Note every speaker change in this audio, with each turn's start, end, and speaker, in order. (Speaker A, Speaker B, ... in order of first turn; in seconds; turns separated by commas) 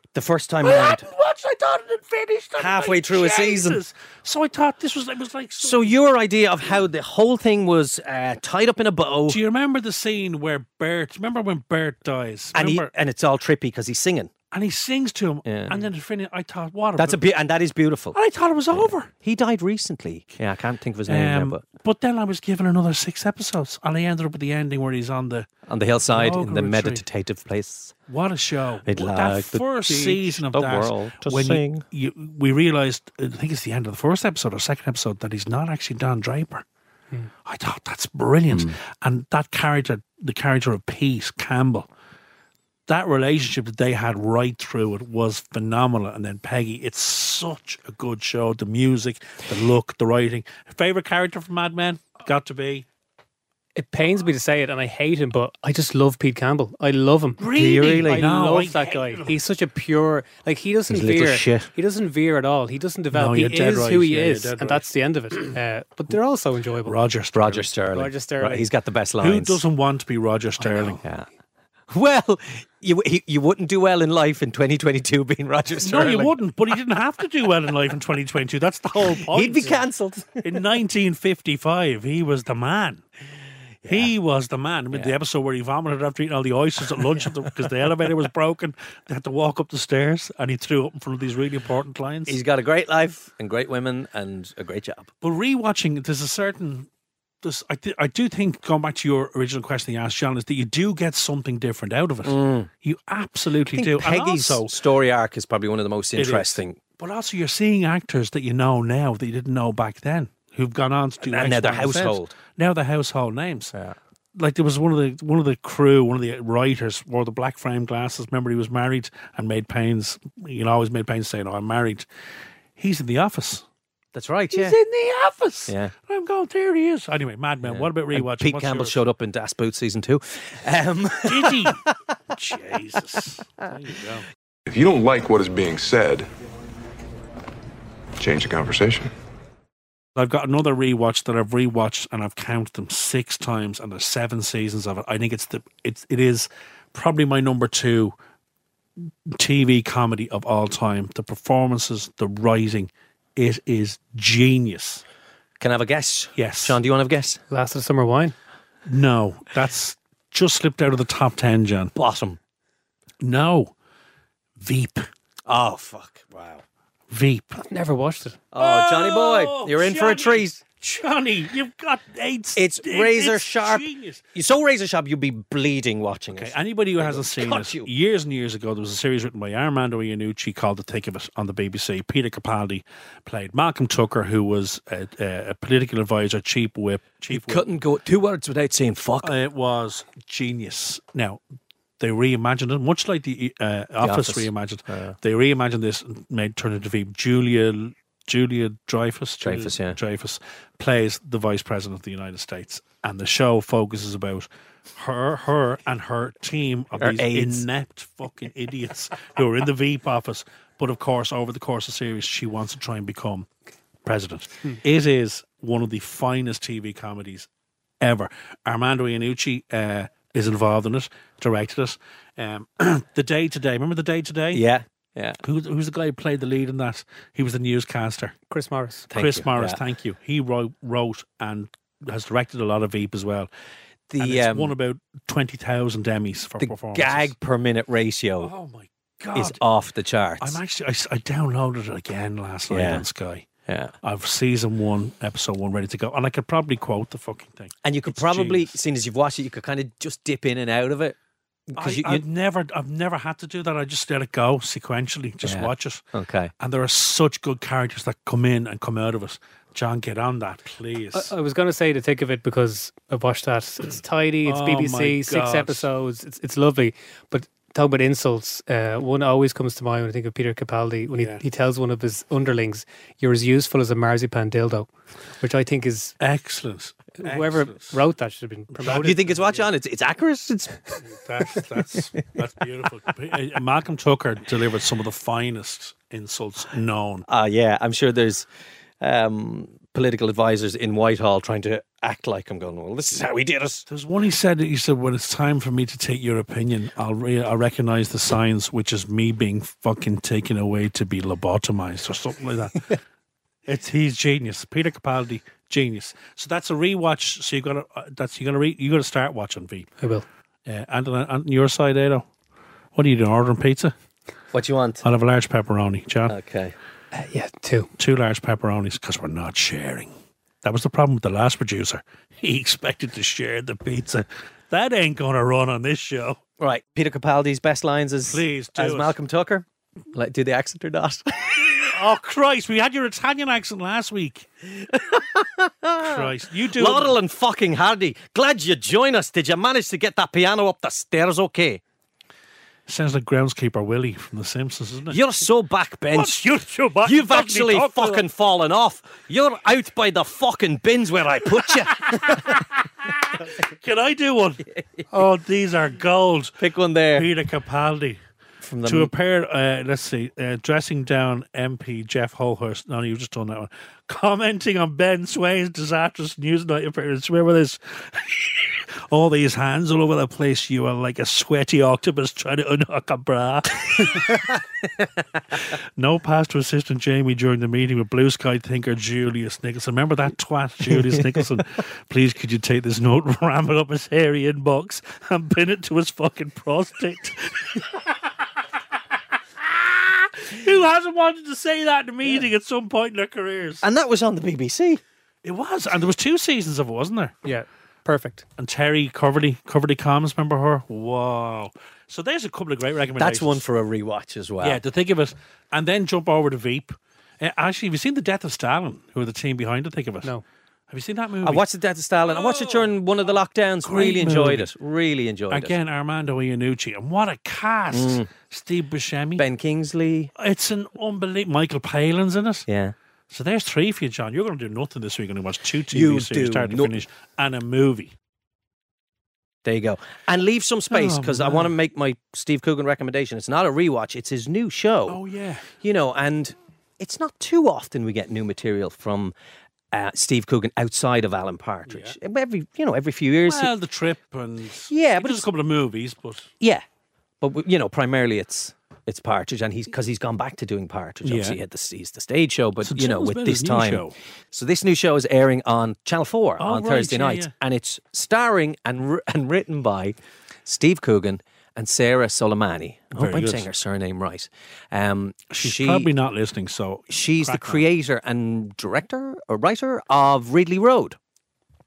Speaker A: 0.1-1.1, Speaker B: 0.6-5.9, Speaker A: 2.6-3.8, Speaker A: 5.6-9.4, Speaker B: 9.3-12.9, Speaker A: 12.5-14.3, Speaker B: 14.5-17.2, Speaker A: 15.4-15.9, Speaker A: 17.0-18.2, Speaker B: 18.1-19.1, Speaker A: 18.7-21.6, Speaker B: 21.1-25.5, Speaker A: 25.7-27.9, Speaker B: 26.1-27.0, Speaker B: 28.1-36.6, Speaker A: 28.9-31.8, Speaker B: 37.4-41.9, Speaker B: 42.9-52.9, Speaker C: 53.8-67.0, Speaker B: 57.4-59.4, Speaker A: 57.5-58.2, Speaker A: 60.9-61.7, Speaker B: 63.1-64.9, Speaker B: 66.8-67.7, Speaker A: 67.3-69.6, Speaker C: 67.9-68.7, Speaker B: 69.2-71.0, Speaker A: 70.6-71.3, Speaker A: 71.9-76.3, Speaker B: 75.8-79.8, Speaker A: 79.1-80.5, Speaker B: 80.4-83.0, Speaker A: 83.8-84.1, Speaker B: 83.9-92.4, Speaker A: 92.3-95.1, Speaker B: 95.2-96.9, Speaker B: 97.4-104.7, Speaker A: 102.2-102.7, Speaker A: 103.7-106.8, Speaker B: 106.2-113.7, Speaker A: 111.2-112.3, Speaker B: 114.3-122.1, Speaker B: 122.8-123.7, Speaker A: 124.1-124.8, Speaker B: 124.5-129.0, Speaker A: 125.7-125.9, Speaker A: 127.6-131.8, Speaker B: 131.2-131.8, Speaker B: 132.3-134.2, Speaker D: 134.7-136.3, Speaker D: 138.2-139.1, Speaker B: 140.1-148.1, Speaker B: 149.0-155.0, Speaker A: 155.6-157.4, Speaker B: 156.3-156.8, Speaker C: 157.5-158.3, Speaker B: 158.8-161.9, Speaker A: 161.9-162.4, Speaker B: 163.2-163.7, Speaker B: 164.6-165.1, Speaker A: 165.5-166.6, Speaker B: 167.1-167.6, Speaker C: 167.6-168.4, Speaker A: 168.5-170.6, Speaker B: 168.6-174.2, Speaker A: 172.6-177.9, Speaker B: 176.3-187.6, Speaker A: 187.3-189.3, Speaker B: 189.2-191.4, Speaker B: 192.0-213.5, Speaker A: 194.0-195.1, Speaker A: 199.4-200.0, Speaker A: 207.0-207.6, Speaker B: 214.0-217.5, Speaker B: 218.0-224.6, Speaker A: 224.5-225.4, Speaker B: 225.4-228.3, Speaker C: 228.5-229.1, Speaker A: 229.1-229.8, Speaker B: 229.1-233.5, Speaker A: 234.1-234.7, Speaker B: 234.2-237.3, Speaker A: 236.6-238.5, Speaker B: 238.4-239.6, Speaker A: 239.3-240.6, Speaker B: 240.4-243.5, Speaker A: 242.7-243.0, Speaker A: 243.7-243.9, Speaker B: 244.0-248.7, Speaker A: 247.8-251.2, Speaker A: 251.7-252.2, Speaker B: 251.8-256.0, Speaker A: 255.4-256.5, Speaker B: 256.6-261.3, Speaker C: 261.1-276.1, Speaker B: 264.4-265.9, Speaker B: 271.2-271.4, Speaker B: 276.2-278.0, Speaker C: 277.2-279.4, Speaker B: 278.8-279.2, Speaker A: 278.8-281.0, Speaker B: 281.0-287.2, Speaker A: 287.3-288.5, Speaker A: 289.0-293.9, Speaker B: 293.9-302.9, Speaker B: 303.6-309.9, Speaker C: 310.0-310.2, Speaker B: 310.6-312.2, Speaker B: 312.9-313.9, Speaker A: 314.5-315.0, Speaker B: 315.0-316.3, Speaker A: 316.3-316.8, Speaker C: 317.1-317.9, Speaker B: 318.0-320.1, Speaker B: 320.6-326.4, Speaker A: 326.6-331.7, Speaker B: 328.3-329.1, Speaker B: 331.7-334.5, Speaker A: 334.8-341.8, Speaker B: 336.0-337.2, Speaker B: 342.9-345.2, Speaker A: 345.1-346.5, Speaker B: 346.1-348.3, Speaker A: 347.0-352.6, Speaker B: 352.0-358.2, Speaker A: 356.6-357.3, Speaker A: 358.6-359.1, Speaker B: 358.8-374.6, Speaker B: 375.5-388.3, Speaker B: 389.6-393.8, Speaker A: 393.8-395.0, Speaker B: 395.4-397.4, Speaker C: 397.4-398.4, Speaker B: 398.6-403.6, Speaker A: 403.2-404.8, Speaker B: 404.6-410.3, Speaker B: 410.9-411.6, Speaker A: 411.4-415.8, Speaker B: 412.2-412.9, Speaker B: 413.8-414.7, Speaker B: 415.5-419.4, Speaker A: 417.9-418.3, Speaker A: 419.4-420.3, Speaker B: 420.4-422.7, Speaker A: 422.7-422.9, Speaker B: 423.3-428.1, Speaker A: 425.9-426.9, Speaker A: 429.6-435.2, Speaker B: 430.9-431.7, Speaker B: 435.1-435.7, Speaker A: 435.8-439.3, Speaker A: 439.9-443.7, Speaker B: 441.9-442.1, Speaker B: 443.4-446.5, Speaker A: 444.9-445.5, Speaker A: 447.4-466.1, Speaker B: 451.2-451.6, Speaker B: 452.8-454.1, Speaker B: 456.6-457.5, Speaker B: 463.1-463.7, Speaker B: 465.5-467.9, Speaker A: 467.1-471.2